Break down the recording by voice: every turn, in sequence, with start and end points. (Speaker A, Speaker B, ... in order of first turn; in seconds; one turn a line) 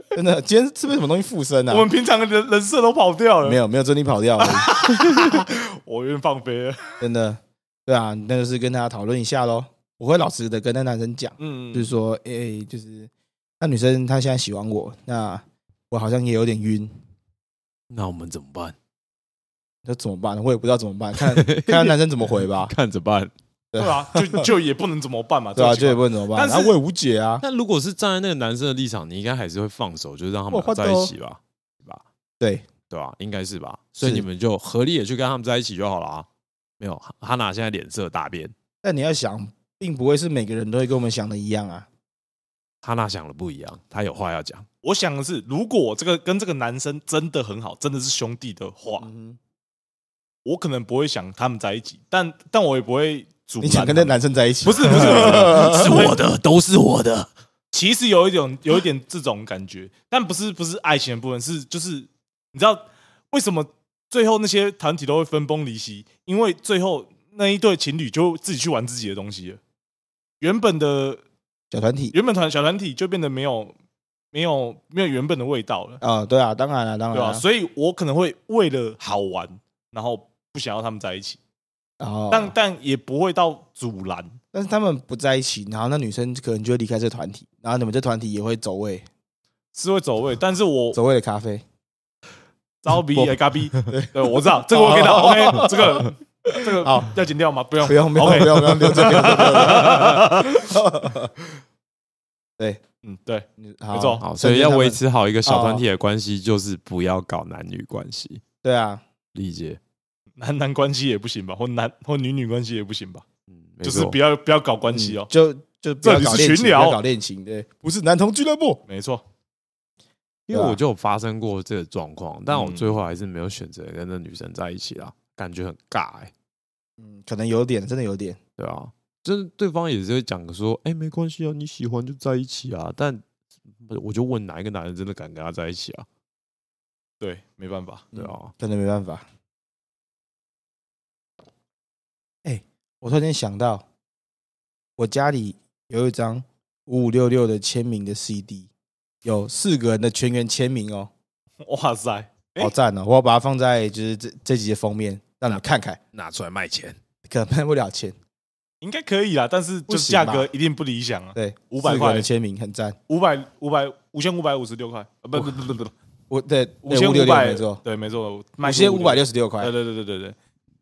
Speaker A: 0.1-1.9
Speaker B: 1.7-3.6
Speaker A: 3.4-4.8
Speaker B: 4.4-7.0
Speaker A: 7.0-16.9
Speaker B: 11.4-11.9
Speaker C: 17.9-18.8
Speaker A: 19.8-22.7
Speaker C: 21.1-21.9
Speaker C: 22.6-23.3
Speaker A: 23.7-24.5
Speaker B: 23.8-26.7
Speaker A: 25.6-27.4
Speaker C: 27.4-32.0
Speaker A: 30.5-31.1
Speaker A: 32.4-32.7
Speaker C: 32.9-36.3
Speaker A: 34.0-34.2
Speaker C: 36.8-38.5
Speaker A: 38.8-41.9
Speaker C: 42.8-44.6
Speaker B: 44.8-49.1
Speaker A: 49.0-49.4
Speaker B: 50.4-56.2
Speaker A: 53.6-56.1
Speaker C: 54.8-57.3
Speaker B: 57.7-69.6
Speaker B: 70.4-71.2
Speaker A: 71.7-72.1
Speaker B: 72.1-73.7
Speaker B: 74.3-76.0
Speaker A: 76.0-77.4
Speaker B: 77.1-81.4
Speaker A: 82.0-82.5
Speaker B: 82.3-84.3
Speaker A: 84.5-89.1
Speaker B: 89.7-91.0
Speaker A: 90.9-91.6
Speaker B: 92.8-100.5
Speaker C: 93.1-93.9
Speaker A: 93.9-97.1
Speaker A: 97.8-101.3
Speaker A: 102.6-102.8
Speaker B: 103.0-104.2
Speaker A: 103.6-105.8
Speaker C: 104.2-108.4
Speaker A: 108.6-109.0
Speaker C: 109.3-109.8
Speaker B: 110.4-113.2
Speaker C: 113.5-114.2
Speaker B: 113.8-115.3
Speaker A: 114.9-118.8
Speaker B: 116.0-117.0
Speaker B: 118.9-119.2
Speaker C: 120.5-126.3
Speaker A: 120.5-120.8
Speaker B: 122.5-123.0
Speaker A: 127.0-128.4
Speaker C: 128.6-133.2
Speaker C: 133.8-136.1
Speaker B: 137.2-138.1
Speaker A: 138.1-139.2
Speaker C: 138.1-138.5
Speaker A: 142.4-143.8
Speaker A: 145.0-148.7
Speaker A: 149.2-151.1
Speaker B: 151.6-152.7
Speaker A: 152.6-156.0
Speaker C: 156.1-157.0
Speaker A: 157.2-158.2
Speaker B: 158.8-162.3
Speaker A: 159.9-160.5
Speaker A: 161.3-163.0
Speaker B: 163.1-165.9
Speaker A: 166.3-167.8
Speaker B: 166.8-170.3
Speaker A: 168.6-169.7